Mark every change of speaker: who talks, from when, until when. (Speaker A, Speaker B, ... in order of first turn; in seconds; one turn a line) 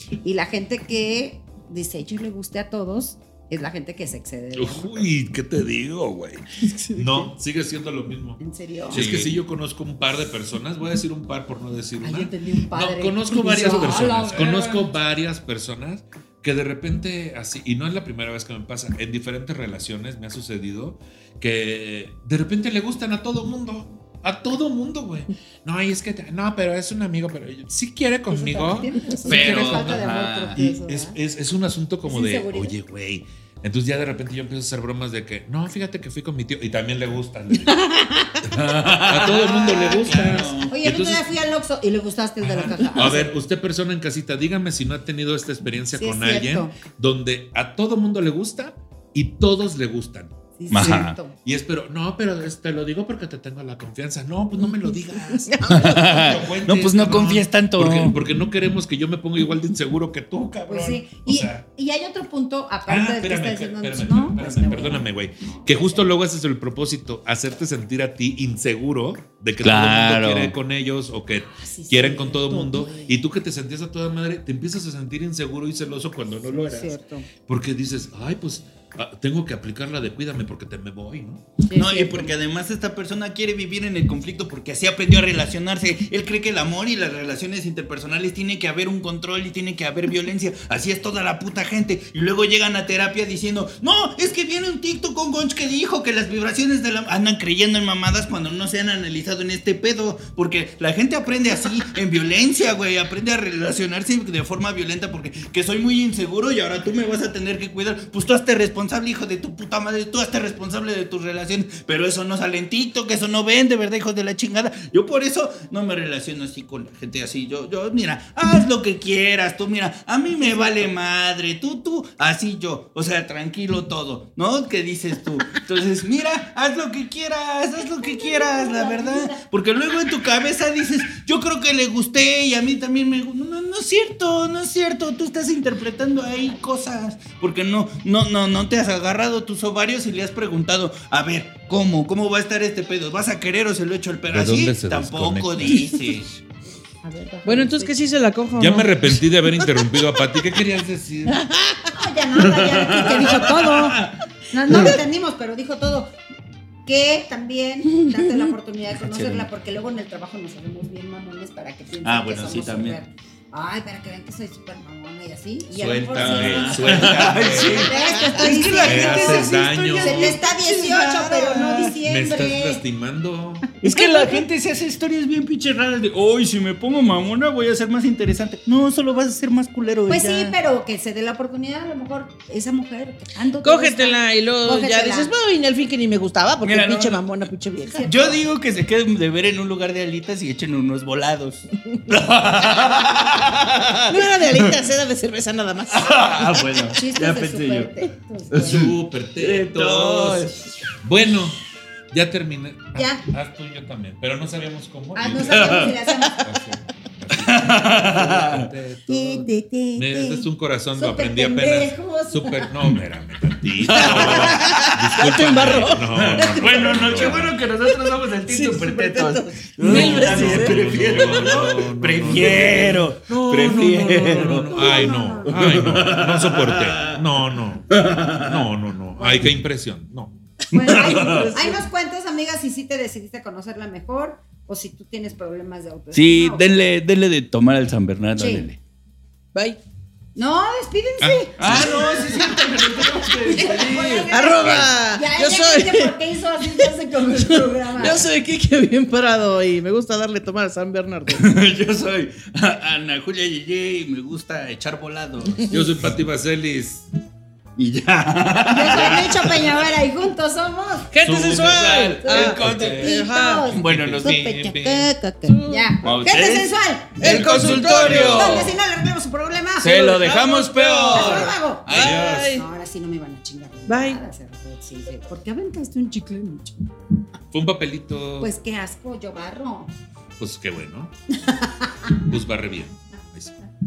Speaker A: 0.2-5.1
Speaker B: 4.5-37.8
Speaker C: 6.7-7.3
Speaker A: 8.4-9.0
Speaker D: 8.9-9.3
Speaker A: 12.0-14.9
Speaker A: 28.3-31.2
Speaker D: 29.2-30.6
Speaker A: 32.1-32.8
Speaker A: 37.6-38.5
Speaker D: 38.5-40.7
Speaker B: 38.5-41.2
Speaker A: 40.7-43.3
Speaker B: 42.4-50.9
Speaker A: 46.0-46.7
Speaker A: 50.6-51.4
Speaker D: 50.7-51.2
Speaker B: 51.5-61.6
Speaker C: 55.4-56.3
Speaker D: 55.7-58.2
Speaker A: 60.7-66.1
Speaker B: 62.9-81.4
Speaker D: 69.6-70.5
Speaker A: 71.4-73.2
Speaker A: 76.5-77.3
Speaker A: 81.6-82.3
Speaker D: 81.7-146.3
Speaker A: 128.0-129.4
Speaker B: 144.3-145.9
Speaker A: 147.0-147.9
Speaker C: 147.4-150.2
Speaker B: 148.6-151.4
Speaker C: 151.3-151.9
Speaker A: 151.9-156.1
Speaker D: 152.3-154.2
Speaker D: 154.7-155.0
Speaker A: 156.9-172.8
Speaker D: 159.0-159.5
Speaker D: 162.0-163.0
Speaker B: 165.7-168.0
Speaker D: 166.1-172.0
Speaker C: 168.0-169.1
Speaker B: 168.8-170.4
Speaker B: 172.0-173.7
Speaker D: 173.8-180.6
Speaker A: 173.8-174.4
Speaker A: 180.1-185.3
Speaker C: 183.6-188.1
Speaker D: 186.6-187.2
Speaker A: 187.9-188.4
Speaker D: 188.0-194.7
Speaker C: 194.1-196.7
Speaker D: 195.9-200.8
Speaker A: 196.8-198.8
Speaker B: 198.5-200.5
Speaker B: 201.0-217.6
Speaker A: 202.9-203.2
Speaker A: 205.2-206.5
Speaker D: 205.5-205.9
Speaker D: 207.3-208.7
Speaker A: 209.1-212.7
Speaker D: 213.8-215.0
Speaker C: 213.9-221.8
Speaker D: 215.6-227.2
Speaker B: 219.8-230.3
Speaker A: 224.7-225.8
Speaker D: 227.9-228.7
Speaker A: 229.2-229.4
Speaker D: 230.7-231.6
Speaker A: 230.7-236.7
Speaker C: 231.2-231.8
Speaker D: 236.1-238.8
Speaker A: 238.4-238.7
Speaker A: 240.4-242.5
Speaker B: 241.2-242.1
Speaker D: 241.6-244.3
Speaker C: 241.8-246.2
Speaker A: 243.4-248.3
Speaker B: 244.6-244.9
Speaker C: 246.8-251.5
Speaker D: 251.3-255.7
Speaker C: 255.6-255.9
Speaker B: 255.7-257.1
Speaker D: 257.8-259.9
Speaker A: 258.7-261.1
Speaker B: 258.9-259.3
Speaker C: 261.1-263.7
Speaker B: 261.2-263.2
Speaker D: 261.4-263.1
Speaker A: 262.3-270.3
Speaker D: 263.7-264.3
Speaker B: 263.7-265.1
Speaker C: 265.5-266.4
Speaker D: 266.0-268.8
Speaker C: 267.2-268.8
Speaker D: 269.8-272.3
Speaker C: 269.9-272.7
Speaker A: 271.1-276.8
Speaker B: 271.9-272.6
Speaker C: 273.9-274.2
Speaker B: 277.5-278.5
Speaker A: 278.4-279.9
Speaker B: 280.4-281.1
Speaker A: 281.3-282.1
Speaker B: 282.2-283.6